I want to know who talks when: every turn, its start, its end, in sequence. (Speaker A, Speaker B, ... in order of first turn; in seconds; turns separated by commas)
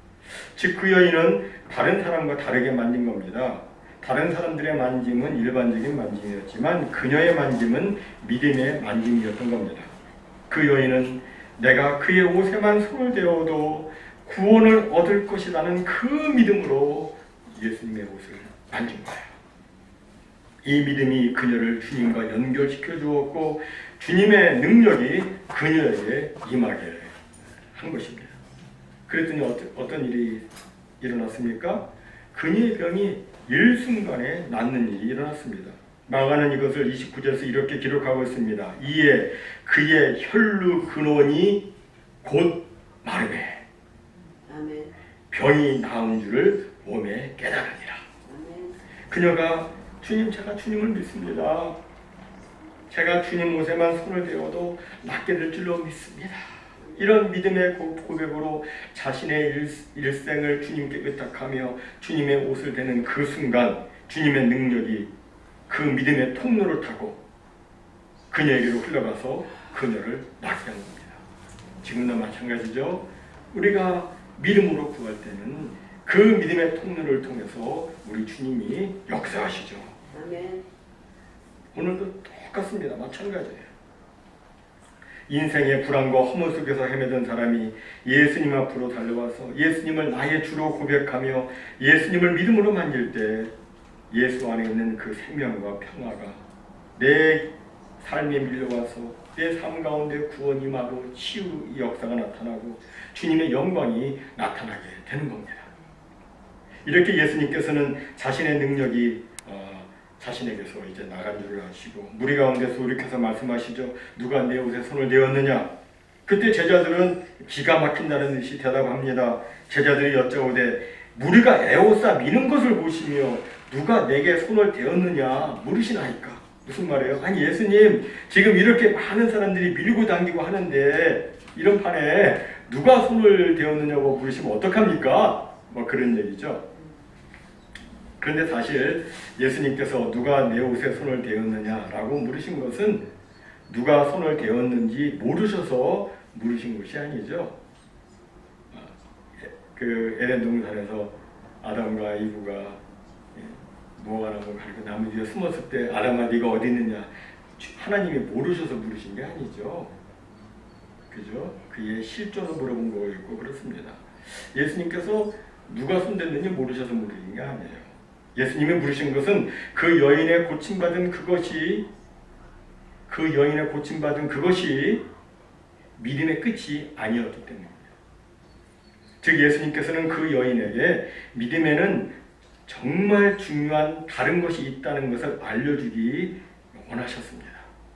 Speaker A: 0.5-9.9, Speaker A: 10.5-19.4, Speaker A: 20.6-27.2, Speaker A: 27.7-28.4, Speaker A: 29.1-30.4, Speaker A: 31.0-41.7, Speaker A: 42.2-43.6, Speaker B: 44.5-44.9, Speaker A: 45.3-48.0, Speaker B: 48.2-48.8, Speaker A: 49.1-51.8, Speaker A: 52.9-65.1, Speaker B: 56.8-57.1, Speaker A: 65.7-67.2, Speaker A: 68.3-71.2, Speaker A: 71.8-80.0, Speaker B: 80.1-80.7, Speaker A: 81.7-83.7, Speaker A: 85.3-93.5, Speaker A: 94.1-96.4, Speaker A: 97.0-105.7, Speaker A: 106.8-115.7, Speaker A: 116.3-136.7, Speaker A: 138.2-143.1, Speaker A: 143.7-147.6, Speaker A: 148.7-152.8, Speaker A: 153.3-159.9, Speaker A: 161.1-171.9, Speaker A: 173.1-175.0, Speaker A: 176.0-177.9, Speaker A: 179.2-182.1, Speaker A: 182.7-187.7